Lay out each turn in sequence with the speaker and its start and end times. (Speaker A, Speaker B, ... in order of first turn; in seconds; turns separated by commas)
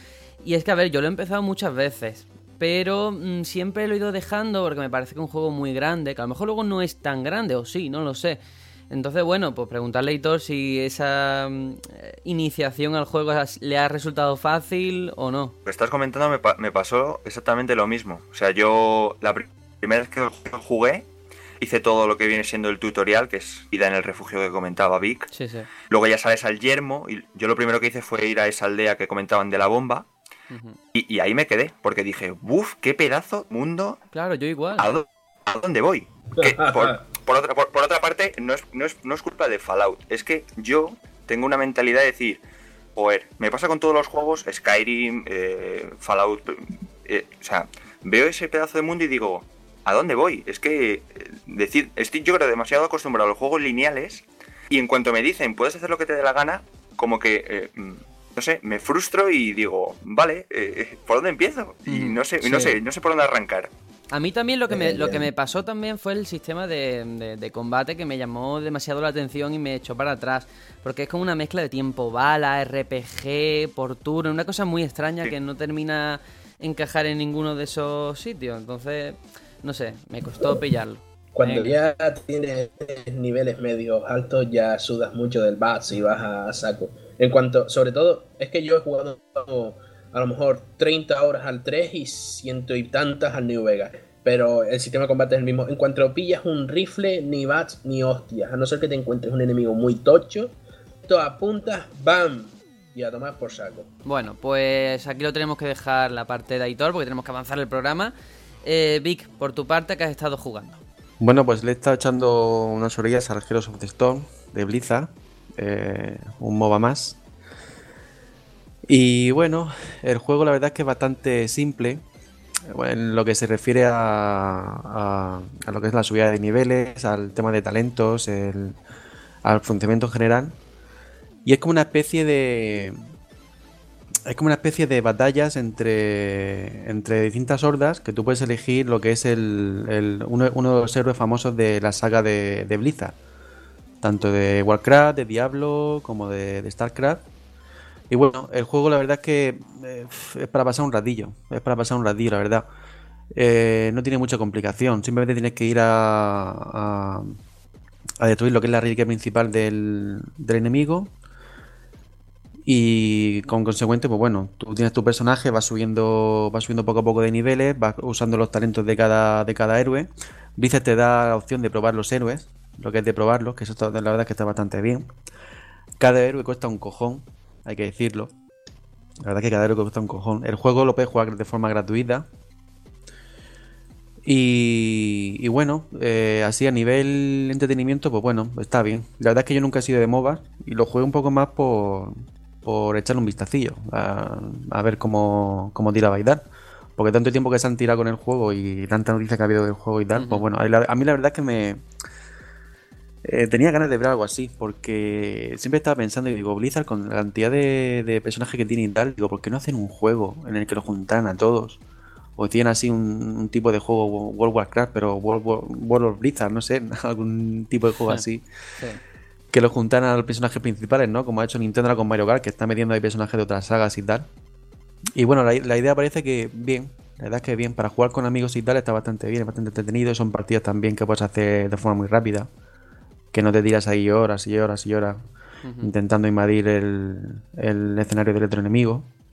Speaker A: 0.4-15.6, Speaker B: 15.7-21.1, Speaker B: 21.6-25.3, Speaker A: 25.3-25.7, Speaker B: 25.9-30.1, Speaker A: 30.5-30.8, Speaker B: 30.9-34.0, Speaker A: 34.1-34.9, Speaker B: 34.8-42.4, Speaker C: 36.4-37.0, Speaker B: 43.0-63.7, Speaker A: 61.9-62.8, Speaker A: 64.1-81.8, Speaker C: 64.7-65.2, Speaker C: 81.3-100.5, Speaker C: 101.1-103.9, Speaker A: 104.0-110.8, Speaker D: 111.2-117.2, Speaker D: 118.9-122.0, Speaker D: 122.7-128.8, Speaker D: 129.4-130.6, Speaker D: 131.4-132.9, Speaker D: 134.3-143.2, Speaker D: 144.0-147.2, Speaker D: 148.1-152.7, Speaker D: 153.3-157.4, Speaker D: 158.2-161.1, Speaker D: 162.7-175.1, Speaker D: 176.0-178.3, Speaker D: 179.2-182.3, Speaker D: 184.2-196.4, Speaker D: 197.0-201.8, Speaker A: 200.2-200.4, Speaker D: 203.2-211.8, Speaker D: 212.4-218.4, Speaker D: 219.5-224.3, Speaker D: 225.1-232.5, Speaker D: 233.3-235.2, Speaker A: 235.6-235.9, Speaker D: 235.8-239.1